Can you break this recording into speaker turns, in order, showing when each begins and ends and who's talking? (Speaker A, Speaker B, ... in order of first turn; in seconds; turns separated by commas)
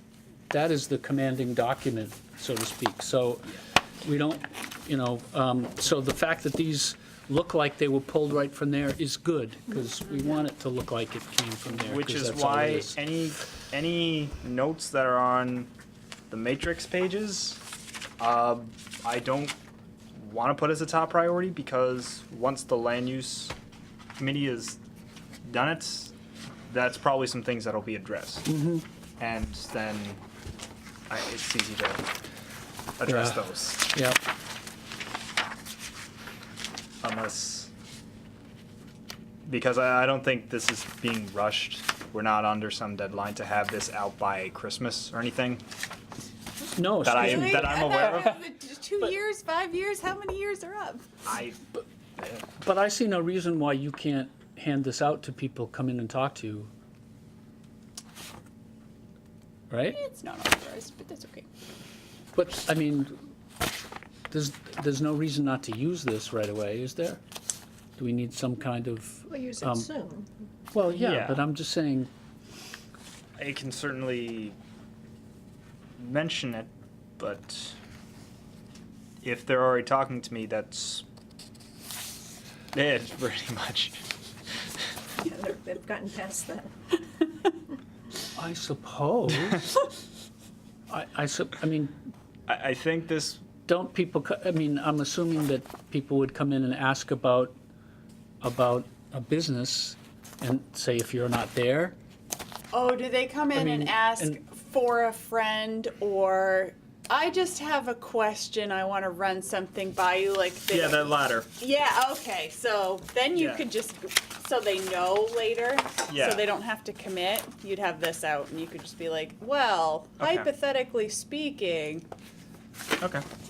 Speaker A: 0.5-12.9, Speaker B: 11.7-15.7, Speaker B: 16.3-17.6, Speaker B: 18.2-19.6, Speaker B: 20.1-23.5, Speaker B: 24.2-24.8, Speaker B: 25.4-26.1, Speaker B: 26.7-28.5, Speaker A: 28.5-28.9, Speaker B: 29.2-30.2, Speaker B: 31.1-32.0, Speaker B: 33.0-33.9, Speaker A: 33.1-34.2, Speaker B: 37.0-37.7, Speaker B: 39.5-45.6, Speaker A: 46.8-48.3, Speaker B: 47.0-48.4, Speaker C: 47.1-51.1, Speaker B: 51.3-51.6, Speaker A: 51.7-56.7, Speaker A: 59.7-60.0, Speaker C: 59.9-61.5, Speaker A: 62.4-63.3, Speaker A: 64.3-67.2, Speaker A: 68.0-69.9, Speaker D: 69.3-70.3, Speaker A: 70.7-72.1, Speaker B: 70.9-71.4, Speaker B: 73.4-74.6, Speaker B: 76.0-77.8, Speaker B: 79.2-81.0, Speaker B: 82.7-84.0, Speaker D: 85.2-86.7, Speaker A: 88.4-89.7, Speaker A: 90.9-92.0, Speaker B: 92.5-93.5, Speaker A: 93.7-97.5, Speaker A: 98.4-102.0, Speaker C: 102.7-122.1, Speaker A: 103.5-104.4, Speaker B: 110.7-111.5, Speaker B: 113.3-113.6, Speaker B: 116.1-116.5, Speaker B: 120.2-120.5, Speaker B: 123.0-123.2